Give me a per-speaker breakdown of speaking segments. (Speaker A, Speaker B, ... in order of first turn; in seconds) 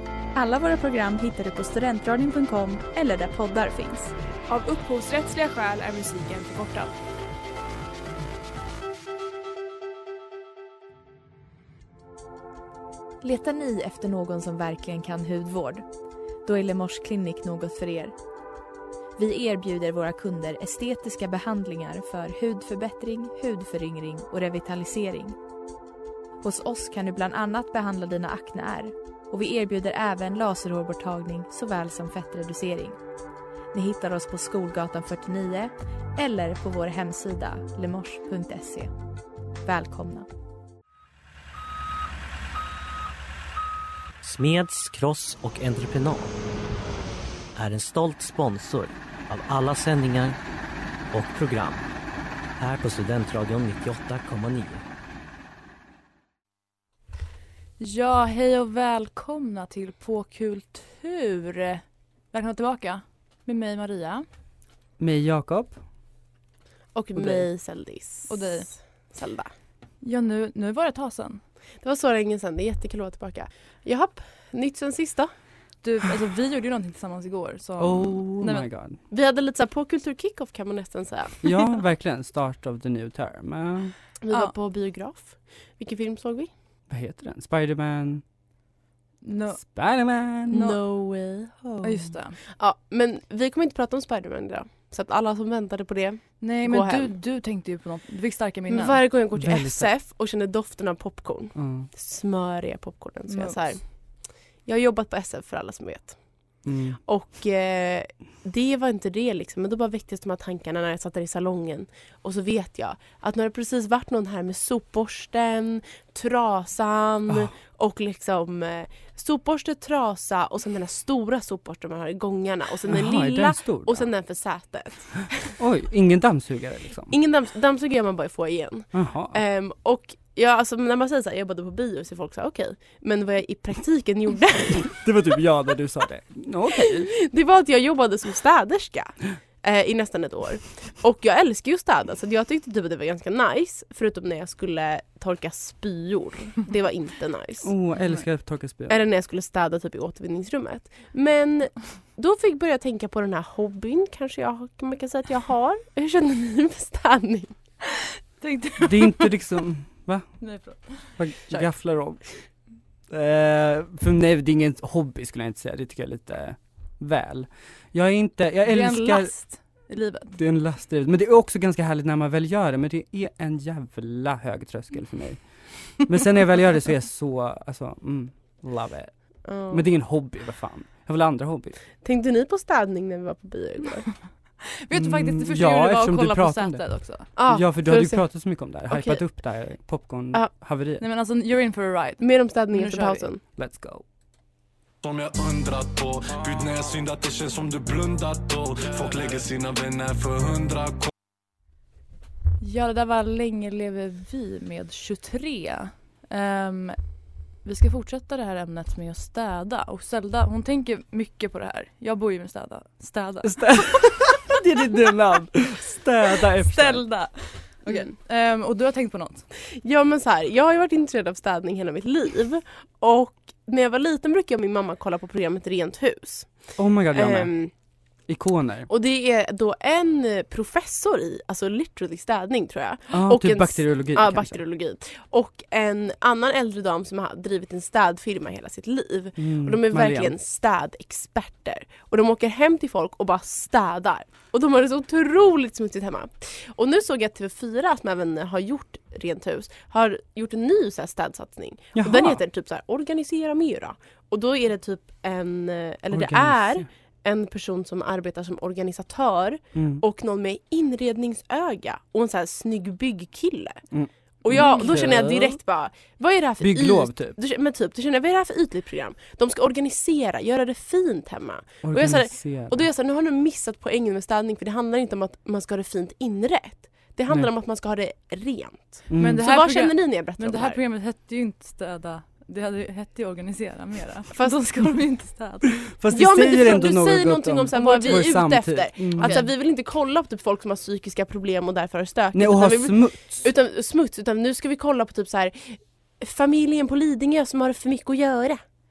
Speaker A: 0.3-4.1, 13.2-15.8, 16.4-18.1, 19.1-25.4, 26.4-33.0, 33.7-38.9, 39.6-40.3
Speaker B: 4.5-6.9
Speaker C: 44.2-46.4, 47.5-50.4, 51.1-51.9, 52.6-54.8
Speaker D: 57.8-64.2, 68.3-68.7, 70.0-71.4, 75.8-78.7, 89.2-89.6, 90.5-90.8, 91.8-92.4, 96.4-99.0, 103.3-103.6, 158.4-159.3, 160.4-161.7, 168.7-170.3, 184.7-187.3, 191.0-193.2, 202.6-207.0, 207.6-214.3, 216.7-219.4, 264.5-264.9, 279.2-285.7, 287.7-288.4, 289.2-289.5
Speaker E: 65.0-65.8, 67.2-67.5, 77.8-79.0, 81.4-83.9, 86.9-88.2, 89.6-90.7, 99.3-99.9, 101.5-101.9, 106.6-107.0, 122.9-124.1, 125.6-127.2, 128.9-129.4, 134.9-137.1, 147.6-149.0, 158.8-160.4, 161.2-162.2, 163.1-169.3, 170.3-175.4, 176.0-181.8, 184.9-191.0, 193.6-194.0, 213.4-217.0, 226.8-227.5, 228.3-228.9, 233.1-234.6, 239.4-240.3, 251.9-252.4, 256.1-256.9, 259.7-260.0, 263.9-265.6, 266.6-267.4, 271.8-272.8, 279.1-279.4, 285.8-289.4, 292.3-293.4
Speaker F: 66.9-69.5, 71.8-75.3, 79.1-81.6, 84.2-86.5, 90.5-91.8, 92.6-97.1, 98.7-103.8, 104.7-106.2, 107.1-125.5, 127.1-135.0, 136.7-147.7, 148.9-157.5, 179.4-179.8, 182.0-184.1, 187.3-189.2, 192.2-193.4, 219.7-227.7, 228.9-263.8, 264.4-280.8, 286.1-298.6
Speaker G: 195.0-201.1